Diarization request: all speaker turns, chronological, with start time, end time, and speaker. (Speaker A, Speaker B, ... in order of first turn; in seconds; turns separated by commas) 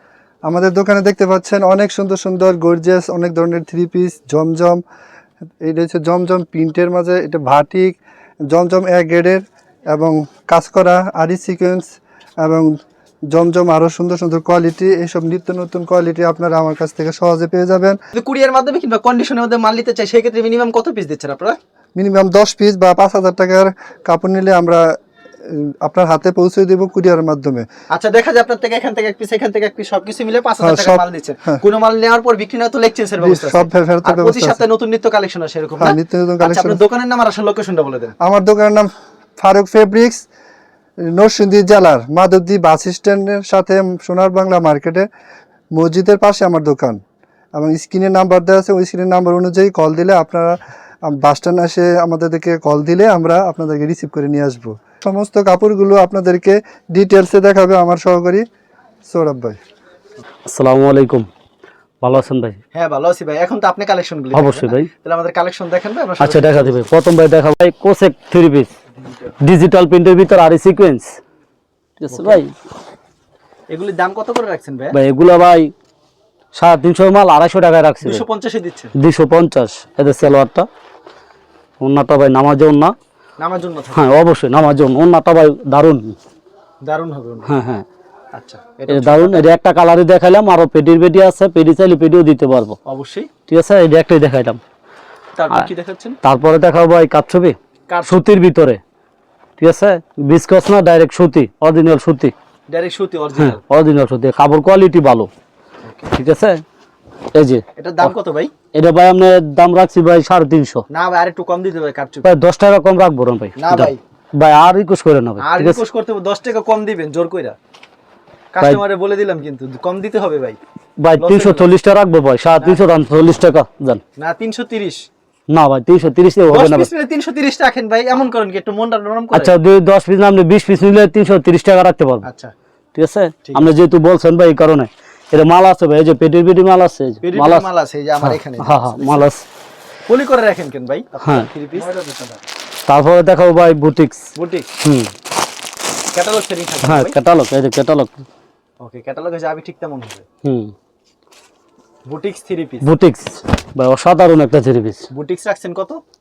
Speaker A: 0.5-4.8, Speaker A: 5.6-8.0, Speaker A: 8.5-12.8, Speaker A: 13.3-18.0, Speaker B: 18.1-21.6, Speaker A: 21.9-27.7, Speaker B: 27.9-38.1, Speaker A: 30.6-31.6, Speaker A: 33.2-34.6, Speaker A: 35.8-36.8, Speaker A: 38.2-40.2, Speaker A: 41.1-45.1, Speaker A: 45.8-47.0, Speaker A: 47.5-58.5, Speaker A: 59.1-59.6, Speaker C: 60.5-61.3, Speaker C: 62.0-62.6, Speaker B: 62.7-66.8, Speaker C: 64.3-64.9, Speaker C: 66.2-68.7, Speaker C: 69.4-71.2, Speaker C: 72.0-72.5, Speaker B: 72.1-72.4, Speaker B: 73.7-75.0, Speaker C: 74.9-75.7, Speaker C: 76.5-78.2, Speaker B: 78.0-79.0, Speaker C: 79.0-80.7, Speaker C: 81.8-82.9, Speaker B: 83.4-84.2, Speaker C: 84.0-86.2, Speaker B: 86.8-87.6, Speaker C: 87.5-87.8, Speaker B: 88.3-89.5, Speaker C: 88.9-92.8, Speaker B: 92.8-93.3, Speaker C: 93.5-94.6, Speaker B: 95.4-96.2, Speaker C: 96.2-97.6, Speaker B: 97.9-98.3, Speaker C: 98.1-98.8, Speaker C: 99.6-102.3, Speaker B: 102.7-103.6, Speaker C: 103.4-105.3, Speaker B: 105.8-106.1, Speaker C: 106.1-106.6, Speaker C: 107.3-108.1, Speaker B: 107.8-108.5, Speaker C: 108.7-110.8, Speaker B: 110.9-112.3, Speaker C: 112.2-115.8, Speaker B: 113.6-114.0, Speaker B: 115.4-117.6, Speaker B: 118.5-120.6, Speaker C: 121.0-124.0, Speaker B: 121.2-121.7, Speaker B: 124.2-125.0, Speaker C: 125.5-126.9, Speaker B: 126.5-129.5, Speaker C: 129.3-132.2, Speaker B: 132.2-132.5, Speaker C: 132.9-137.7, Speaker B: 133.4-133.7, Speaker B: 137.2-139.3, Speaker C: 138.2-139.4, Speaker B: 140.1-141.9, Speaker C: 142.8-144.2, Speaker B: 144.4-144.7, Speaker C: 144.8-145.1, Speaker B: 146.1-147.2, Speaker C: 146.8-148.2, Speaker B: 148.8-150.2, Speaker C: 150.4-150.7, Speaker B: 152.1-152.9, Speaker C: 152.8-155.0, Speaker B: 155.1-156.0